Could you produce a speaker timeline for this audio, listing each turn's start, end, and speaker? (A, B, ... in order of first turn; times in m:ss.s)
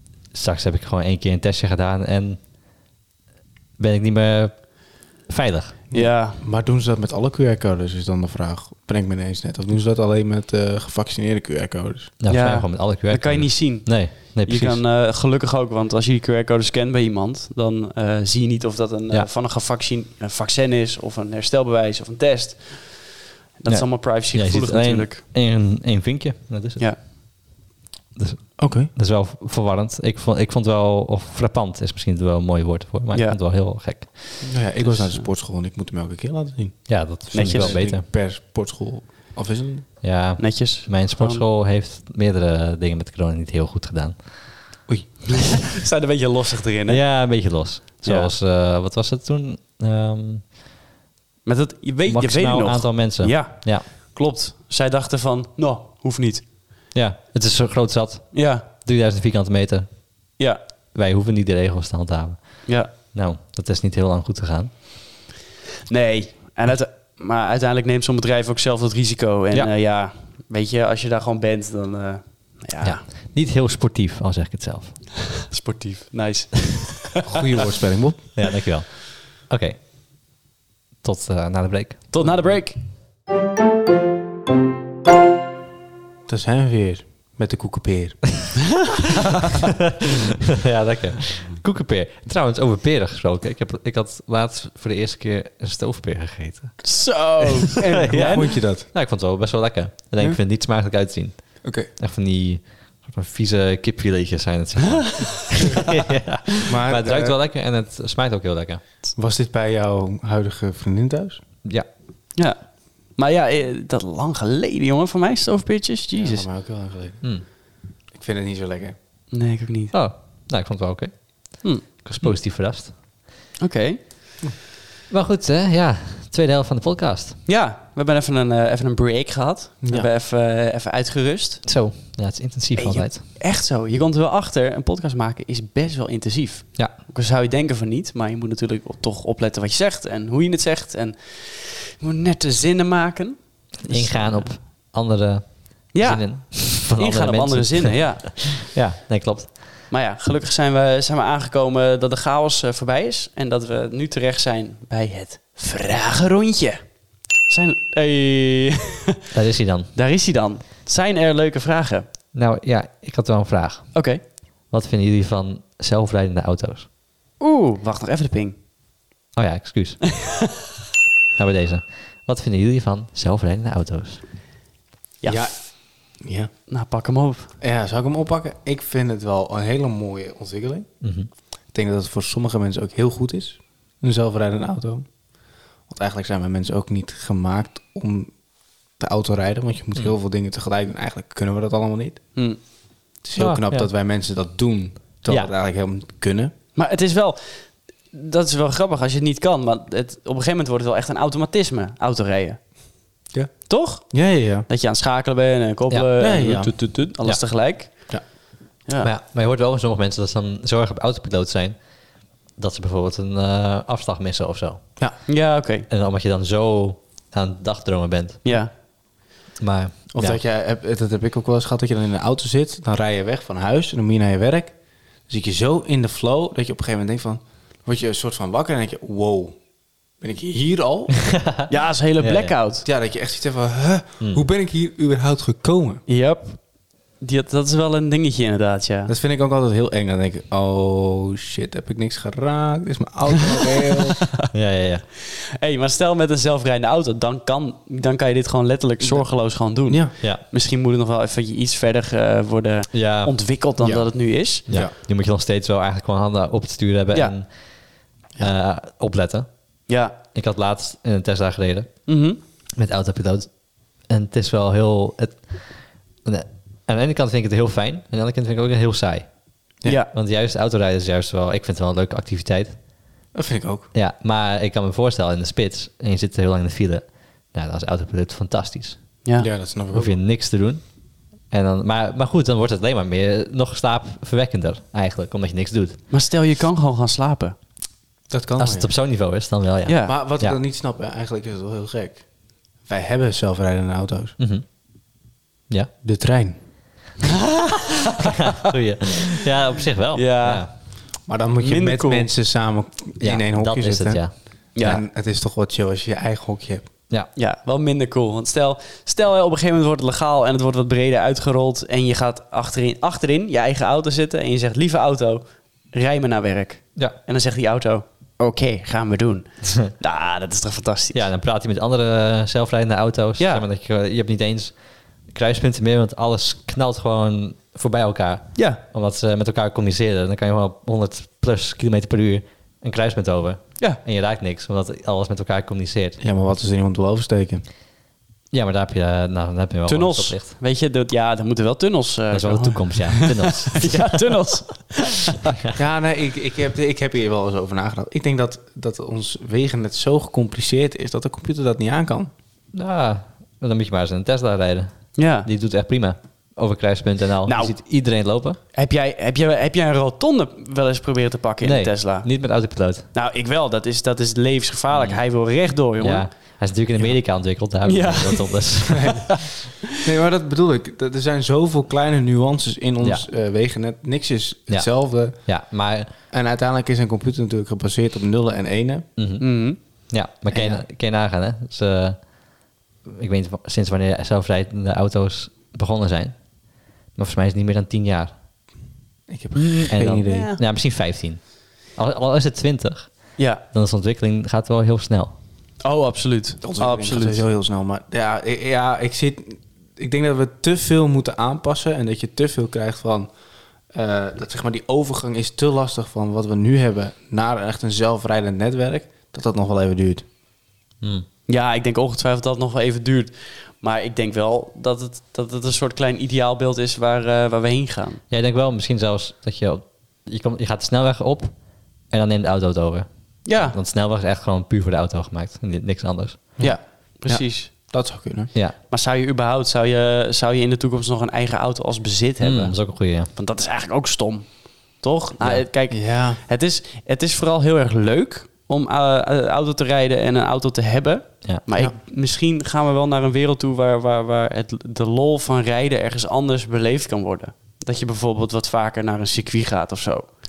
0:00.3-0:02.4 A
0:03.8-0:05.8 A
0:05.9-0:12.1 B
0:05.9-0:06.4 C
0:12.2-0:14.8 A
0:12.3-0:25.2 C
0:23.7-0:26.9 A
0:28.2-0:34.5 A
0:28.6-0:28.9 B
0:34.4-0:39.9 B
0:34.8-0:35.2 C
0:36.9-0:38.0 A
0:37.3-0:37.8 C
0:40.0-0:44.6 A
0:40.4-0:41.4 C
0:45.3-0:47.0 C
0:46.9-0:50.5 A
0:48.0-0:48.3 C
0:51.4-0:56.4 C
0:52.1-0:53.9 A
0:56.9-1:00.0 A
0:58.3-0:58.6 C
1:00.9-1:04.8 A
1:02.6-1:02.9 C
1:05.9-1:13.0 C
1:12.8-1:15.0 A
1:15.5-1:17.2 C
1:17.2-1:18.2 B
1:18.3-1:19.8 A
1:21.0-1:22.2 A
1:22.1-1:22.8 C
1:26.3-1:28.2 B
1:30.5-1:37.1 A
1:36.8-1:38.4 C
1:37.6-1:48.8 A
1:37.8-1:38.9 B
1:41.6-1:41.9 B
1:45.2-1:45.8 C
1:46.6-1:47.4 B
1:49.2-1:51.4 B
1:52.3-1:56.4 C
1:56.1-1:57.2 B
1:58.1-1:59.0 B
1:59.3-1:59.9 C
1:59.9-2:03.0 A
2:01.6-2:02.3 C
2:03.6-2:04.0 C
2:05.1-2:07.4 A
2:07.4-2:11.7 C
2:09.8-2:10.1 B
2:11.6-2:13.2 A
2:12.7-2:24.5 C
2:23.8-2:29.7 A
2:25.9-2:28.6 C
2:29.9-2:36.8 C
2:37.5-2:39.2 C
2:39.3-2:39.9 A
2:39.9-2:42.1 C
2:42.3-2:44.0 A
2:43.9-2:44.2 C
2:44.7-2:46.9 A
2:47.4-2:48.5 C
2:49.3-2:50.2 A
2:51.4-2:54.2 A
2:55.2-2:55.7 C
2:55.2-2:55.7 B
2:56.2-2:56.5 B
2:56.7-2:57.5 C
2:57.6-3:00.9 B
3:01.0-3:01.3 A
3:01.7-3:05.1 B
3:05.9-3:08.4 B
3:09.0-3:12.2 B
3:13.2-3:16.5 B
3:13.4-3:13.9 A
3:16.7-3:22.6 C
3:23.3-3:24.7 B
3:23.7-3:28.1 C
3:26.2-3:26.9 B
3:29.0-3:31.8 A
3:32.6-3:34.8 A
3:35.3-3:35.9 C
3:35.9-3:38.6 A
3:38.4-3:38.7 C
3:39.6-3:40.4 A
3:40.1-3:44.7 B
3:45.3-3:49.6 B
3:50.2-3:51.3 B
3:51.2-3:51.7 A
3:51.7-3:52.8 C
3:52.2-3:52.5 A
3:52.8-3:56.0 B
3:56.1-3:56.6 C
3:57.2-3:59.1 C
3:59.1-4:04.2 B
4:04.5-4:05.0 A
4:05.2-4:14.7 C
4:09.9-4:10.1 B
4:12.9-4:13.4 A
4:13.8-4:14.0 B
4:14.7-4:14.9 B
4:14.7-4:19.5 A
4:19.9-4:20.2 C
4:20.3-4:22.0 A
4:22.1-4:22.4 C
4:22.7-4:23.5 A
4:24.1-4:29.3 A
4:29.8-4:30.1 C
4:30.1-4:32.8 A
4:33.3-4:33.9 B
4:33.9-4:39.0 A
4:39.4-4:40.1 B
4:39.9-4:40.8 A
4:41.5-4:46.0 A
4:46.1-4:47.6 C
4:48.3-4:48.9 B
4:48.6-4:50.6 A
4:49.8-4:50.1 C
4:50.1-4:52.2 B
4:52.8-4:54.3 B
4:54.4-4:54.6 A
4:56.0-4:56.6 B
4:57.2-4:58.7 C
4:58.2-5:00.7 A
5:00.1-5:00.7 C
5:01.3-5:04.2 B
5:01.6-5:02.3 C
5:03.2-5:05.0 A
5:04.7-5:05.0 C
5:04.8-5:06.9 B
5:07.4-5:21.2 C
5:21.1-5:24.8 A
5:23.4-5:23.6 C
5:25.3-5:36.2 A
5:28.5-5:28.8 C
5:36.2-5:37.6 B
5:38.5-5:40.5 A
5:39.9-5:45.6 C
5:42.3-5:44.2 A
5:45.7-5:52.3 B
5:52.7-5:58.6 A
5:55.2-5:55.5 C
5:57.4-5:57.7 C
5:58.7-6:02.3 C
6:01.6-6:03.1 A
6:03.1-6:06.2 C
6:04.9-6:05.2 A
6:06.0-6:09.5 A
6:07.8-6:09.3 C
6:10.0-6:15.5 B
6:14.7-6:16.1 A
6:16.3-6:19.0 B
6:19.2-6:22.3 A
6:19.4-6:19.8 C
6:20.5-6:20.8 B
6:23.0-6:26.4 A
6:27.1-6:28.3 A
6:29.3-6:30.5 B
6:29.5-6:30.6 C
6:29.9-6:35.3 A
6:33.4-6:33.6 C
6:35.8-6:37.4 C
6:36.6-6:43.3 B
6:43.9-6:50.2 B
6:51.0-6:51.2 A
6:51.5-6:58.2 C
6:58.3-7:01.5 A
7:02.1-7:06.6 A
7:03.4-7:03.8 C
7:06.6-7:08.5 B
7:06.6-7:07.7 C
7:08.9-7:12.8 C
7:12.4-7:13.3 A
7:13.3-7:30.3 C
7:15.4-7:15.6 A
7:15.9-7:16.4 B